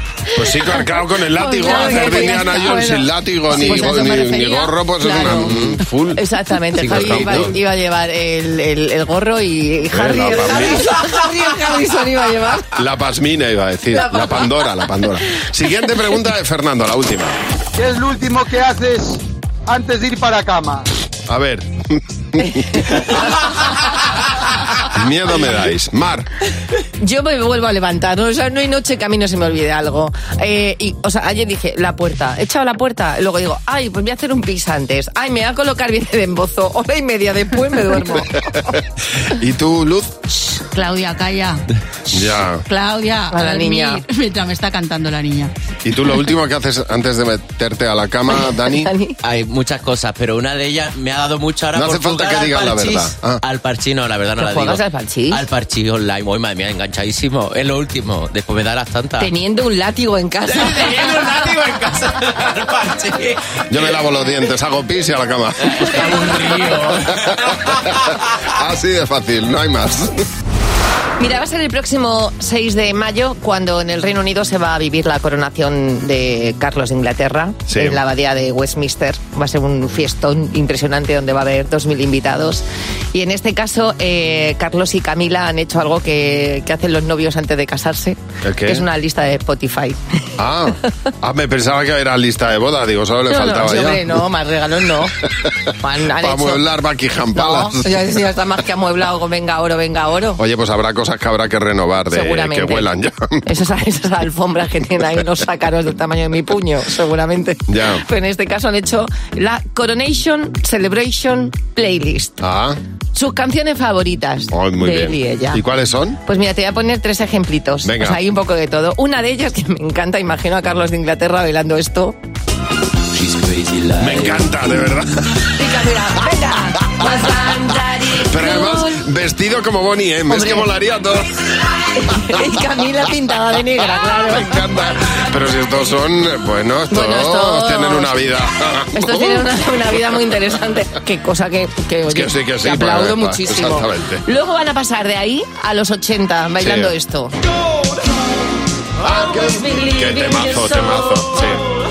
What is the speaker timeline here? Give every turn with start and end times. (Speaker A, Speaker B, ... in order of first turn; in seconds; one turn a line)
Speaker A: 0.3-6.2
Speaker B: 1.4-5.6
Speaker C: 1.6-3.0
Speaker C: 3.5-4.5
Speaker B: 6.2-12.8
Speaker A: 6.8-7.6
Speaker A: 9.9-11.0
Speaker A: 12.8-17.4
Speaker B: 13.9-14.5
Speaker D: 17.8-20.9
Speaker A: 21.3-23.1
Speaker B: 22.6-23.2
Speaker A: 24.8-26.3
Speaker B: 27.0-38.3
Speaker A: 38.2-40.1
Speaker C: 40.5-41.6
Speaker A: 42.1-42.6
Speaker C: 42.7-45.5
Speaker B: 43.3-44.0
Speaker A: 45.8-48.9
Speaker B: 48.4-49.2
Speaker E: 49.2-59.3
Speaker A: 51.7-53.4
Speaker B: 54.4-55.5
Speaker B: 59.2-61.3
Speaker E: 61.2-63.3
Speaker A: 63.7-66.7
Speaker A: 67.3-70.1
Speaker B: 71.2-82.6
Speaker A: 77.7-78.0
Speaker B: 83.1-90.0
Speaker A: 88.5-88.8
Speaker A: 90.4-94.2
Speaker B: 93.3-95.1
Speaker B: 95.8-96.6
Speaker A: 96.2-97.8
Speaker B: 97.3-100.4
Speaker A: 100.4-103.4
Speaker B: 102.1-102.9
Speaker B: 103.5-112.4
Speaker A: 107.7-108.0
Speaker A: 112.4-112.8
Speaker B: 113.1-115.6
Speaker A: 114.5-116.2
Speaker B: 116.2-122.2
Speaker A: 117.8-118.2
Speaker E: 123.2-124.3
Speaker A: 124.0-125.1
Speaker B: 125.6-129.0
Speaker A: 128.3-131.3
Speaker B: 130.3-130.7
Speaker B: 132.0-134.5
Speaker A: 134.1-139.4
Speaker B: 136.9-138.1
Speaker B: 138.9-147.3
Speaker A: 142.1-144.2
Speaker A: 146.6-146.9
Speaker A: 149.0-151.6